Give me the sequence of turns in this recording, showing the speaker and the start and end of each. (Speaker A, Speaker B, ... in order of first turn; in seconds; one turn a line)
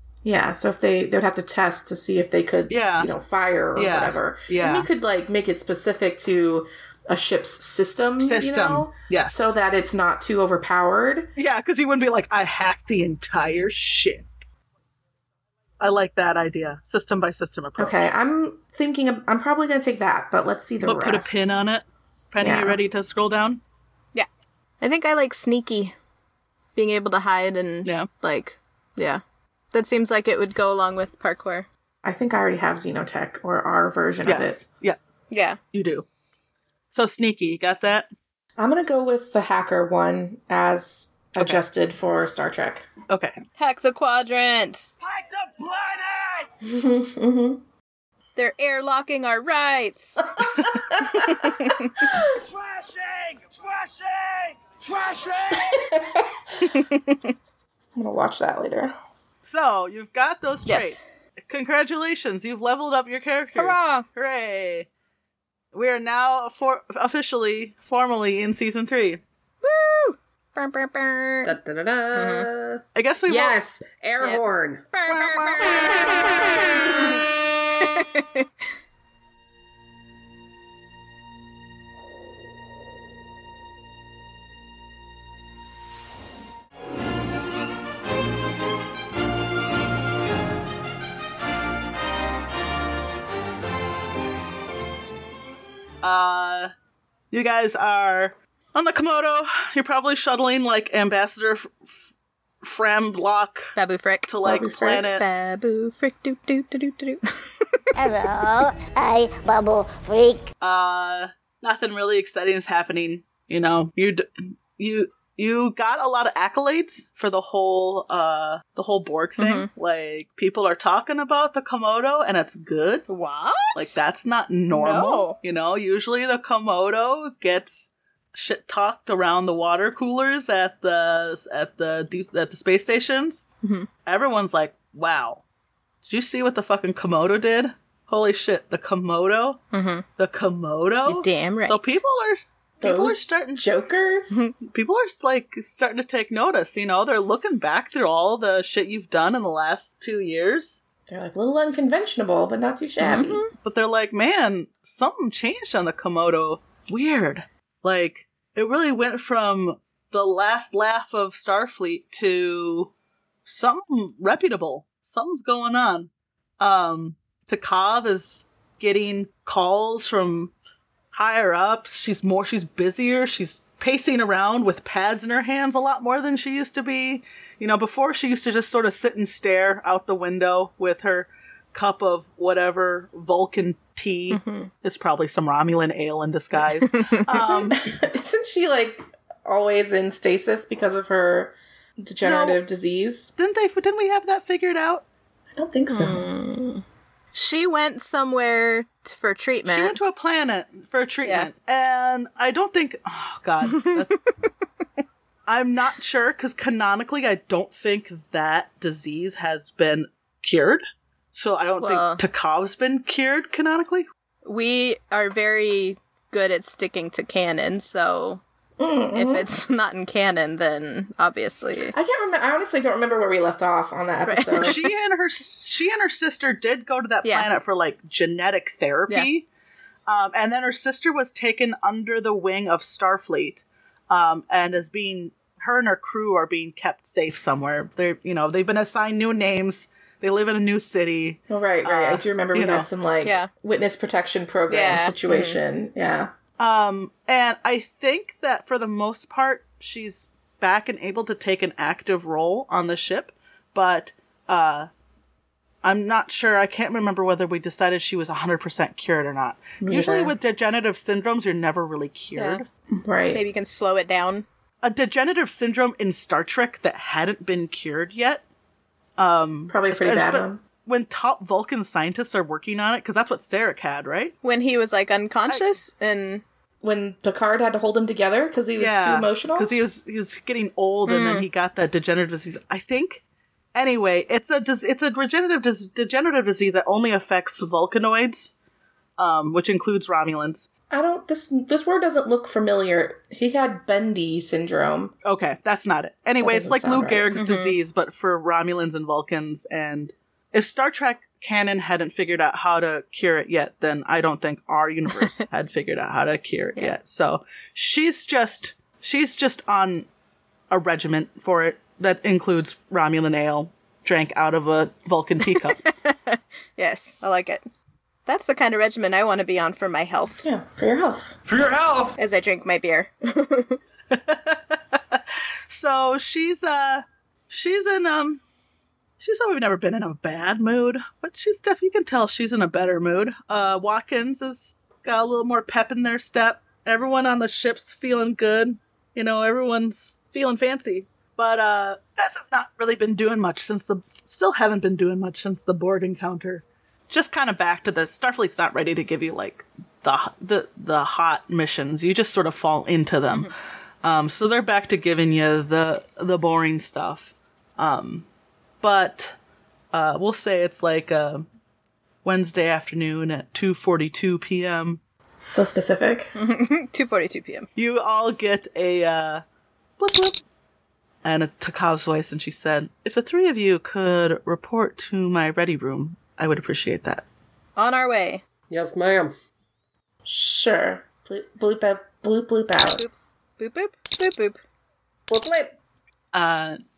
Speaker A: 0.2-11.3
Speaker B: 2.7-3.1
Speaker B: 3.8-4.9
Speaker B: 8.2-9.6
Speaker B: 11.4-14.2
Speaker B: 15.8-18.1
Speaker A: 17.8-21.6
Speaker B: 20.8-23.6
Speaker A: 22.4-22.8
Speaker C: 24.8-25.9
Speaker C: 26.8-29.2
Speaker C: 29.7-31.7
Speaker A: 32.0-34.6
Speaker B: 34.2-35.0
Speaker C: 35.3-35.6
Speaker B: 35.7-36.1
Speaker B: 36.9-38.1
Speaker A: 38.6-42.9
Speaker B: 43.1-43.4
Speaker C: 43.6-44.9
Speaker D: 45.0-46.5
Speaker A: 46.6-47.6
Speaker C: 48.4-50.2
Speaker C: 51.2-51.9
Speaker D: 52.0-56.0
Speaker A: 55.7-56.3
Speaker C: 56.7-57.3
Speaker A: 58.0-59.0
Speaker B: 59.4-64.9
Speaker C: 60.7-61.0
Speaker C: 63.6-64.1
Speaker B: 65.7-69.2
Speaker C: 69.6-71.6
Speaker E: 71.5-74.8
Speaker C: 72.1-72.5
Speaker B: 73.0-73.6
Speaker C: 74.2-76.2
Speaker B: 75.1-75.8
Speaker C: 76.8-77.2
Speaker C: 77.8-78.5
Speaker B: 96.0-96.7
Speaker B: 97.3-101.8
Speaker B: 102.6-103.7
Speaker C: 103.8-104.3
Speaker B: 104.3-105.2
Speaker A: 104.4-105.1
Speaker C: 105.0-107.2
Speaker F: 108.0-110.5
Speaker B: 110.6-123.1
Speaker C: 119.4-119.7
Speaker C: 123.1-124.0
Speaker B: 123.8-133.4
Speaker C: 124.7-125.4
Speaker C: 133.6-133.9
Speaker B: 134.1-135.4
Speaker B: 136.0-139.6
Speaker C: 139.7-140.1
Speaker B: 140.2-143.7
Speaker C: 141.1-142.0
Speaker A: 142.8-144.4
Speaker B: 144.6-150.8
Speaker A: 151.1-153.4
Speaker C: 153.0-153.5
Speaker B: 153.6-162.9
Speaker B: 163.5-170.5
Speaker B: 171.1-187.8
Speaker C: 184.3-184.7
Speaker C: 186.8-187.2
Speaker A: 187.3-193.3
Speaker B: 192.2-192.6
Speaker B: 193.4-195.0
Speaker A: 195.5-196.3
Speaker C: 195.9-199.9
Speaker B: 199.7-204.2
Speaker C: 201.2-201.5
Speaker C: 203.8-204.0
Speaker B: 205.5-214.1
Speaker C: 211.8-212.2
Speaker C: 214.4-218.4
Speaker A: 218.8-219.5
Speaker C: 219.1-221.9
Speaker A: 221.9-224.8
Speaker C: 224.3-224.8
Speaker B: 224.6-229.5
Speaker B: 230.1-242.9
Speaker A: 241.5-246.3
Speaker C: 243.2-243.5
Speaker C: 244.7-245.6
Speaker B: 246.6-254.9
Speaker B: 255.8-262.7
Speaker A: 259.8-260.3
Speaker C: 262.4-262.6
Speaker A: 262.9-263.4
Speaker C: 263.3-264.5
Speaker B: 264.8-268.4
Speaker B: 269.2-274.4
Speaker A: 269.7-270.6
Speaker C: 274.4-276.4
Speaker A: 276.8-279.7
Speaker B: 278.8-283.2
Speaker C: 281.1-281.5
Speaker B: 283.8-288.5
Speaker B: 289.2-290.7
Speaker A: 290.9-295.1
Speaker B: 295.2-310.1
Speaker A: 296.4-297.3
Speaker C: 297.4-297.8
Speaker B: 310.7-315.8
Speaker C: 315.5-317.6
Speaker C: 318.3-320.4
Speaker A: 320.4-321.4
Speaker D: 321.5-322.2
Speaker C: 322.2-323.8
Speaker B: 324.1-328.4
Speaker B: 329.2-353.5
Speaker B: 354.0-358.3
Speaker B: 358.8-359.3
Speaker B: 359.9-361.4
Speaker B: 362.2-365.0
Speaker A: 365.5-366.3
Speaker C: 366.4-367.7
Speaker B: 367.8-369.4
Speaker B: 370.0-370.4
Speaker B: 371.2-377.2
Speaker C: 377.8-378.4
Speaker E: 378.7-379.3
Speaker A: 380.3-383.0
Speaker C: 382.8-384.6
Speaker E: 385.3-385.8
Speaker B: 386.3-386.8